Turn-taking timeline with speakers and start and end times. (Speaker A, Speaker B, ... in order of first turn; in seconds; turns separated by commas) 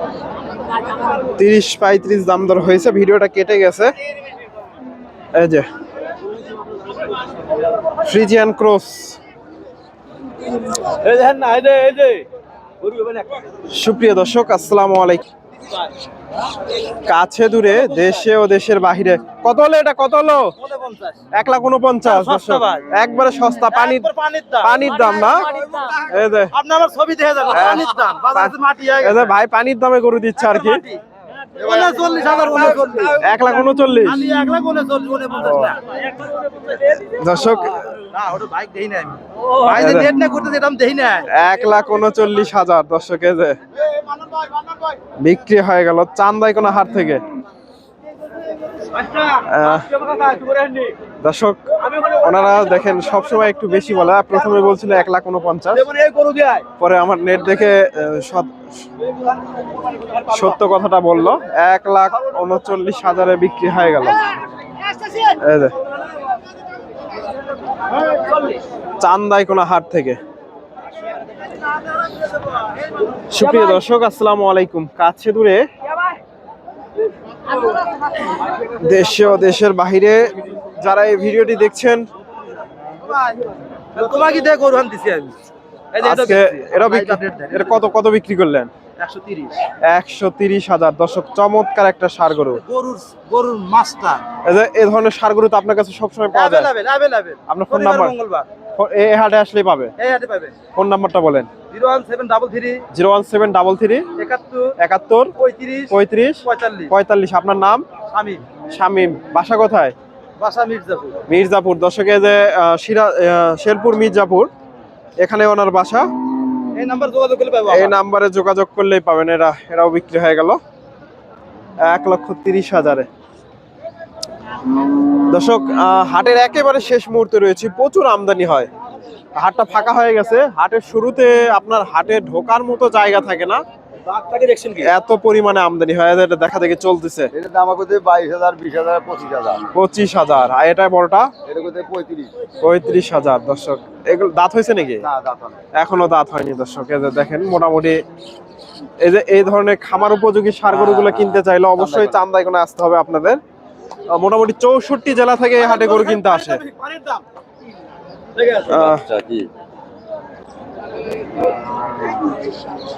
Speaker A: 1.4-3.9, Speaker A: 5.3-5.7, Speaker A: 8.0-9.2, Speaker B: 10.8-12.3, Speaker B: 12.8-13.3, Speaker A: 13.7-15.2, Speaker A: 17.0-20.5, Speaker B: 20.6-21.2, Speaker A: 21.3-24.1, Speaker B: 22.1-22.9, Speaker B: 23.7-24.8, Speaker A: 24.6-26.5, Speaker B: 25.6-26.0, Speaker B: 26.5-29.3, Speaker A: 27.5-30.8, Speaker B: 30.4-31.0, Speaker B: 31.6-33.4, Speaker C: 31.7-32.8, Speaker A: 33.2-34.3, Speaker B: 34.0-36.9, Speaker A: 35.4-35.8, Speaker A: 37.0-37.9, Speaker B: 38.1-41.3, Speaker A: 39.7-40.1, Speaker A: 41.3-43.6, Speaker A: 45.2-47.2, Speaker A: 49.5-49.9, Speaker B: 49.9-51.0, Speaker A: 51.2-55.9, Speaker B: 55.7-56.7, Speaker A: 56.8-58.5, Speaker A: 60.3-64.3, Speaker A: 65.3-65.7, Speaker A: 69.0-70.2, Speaker A: 73.3-75.6, Speaker A: 78.7-82.0, Speaker B: 83.9-85.4, Speaker B: 85.9-87.8, Speaker A: 86.0-88.7, Speaker B: 89.0-89.5, Speaker A: 89.9-92.6, Speaker B: 92.6-94.3, Speaker A: 94.4-96.7, Speaker B: 96.3-98.5, Speaker A: 97.5-98.2, Speaker A: 98.8-99.9, Speaker B: 100.0-100.6, Speaker A: 100.7-101.5, Speaker B: 101.7-102.8, Speaker A: 102.9-104.1, Speaker B: 104.2-104.7, Speaker A: 104.8-105.3, Speaker B: 105.4-105.9, Speaker A: 105.9-107.8, Speaker B: 106.5-106.9, Speaker B: 108.1-108.4, Speaker A: 108.7-110.0, Speaker B: 110.4-111.2, Speaker A: 111.3-114.5, Speaker A: 115.2-116.1, Speaker B: 116.7-118.0, Speaker A: 117.7-120.6, Speaker A: 121.8-123.1, Speaker A: 125.3-128.7, Speaker A: 129.3-133.6, Speaker B: 134.1-134.9, Speaker A: 134.8-137.3, Speaker C: 137.3-139.6, Speaker A: 139.7-141.3, Speaker C: 141.5-142.3, Speaker A: 142.6-145.0, Speaker C: 145.0-145.5, Speaker A: 145.8-148.0, Speaker A: 149.0-153.4, Speaker A: 154.1-156.6, Speaker B: 155.7-157.2, Speaker B: 158.4-158.8, Speaker A: 158.7-159.1, Speaker C: 158.7-159.5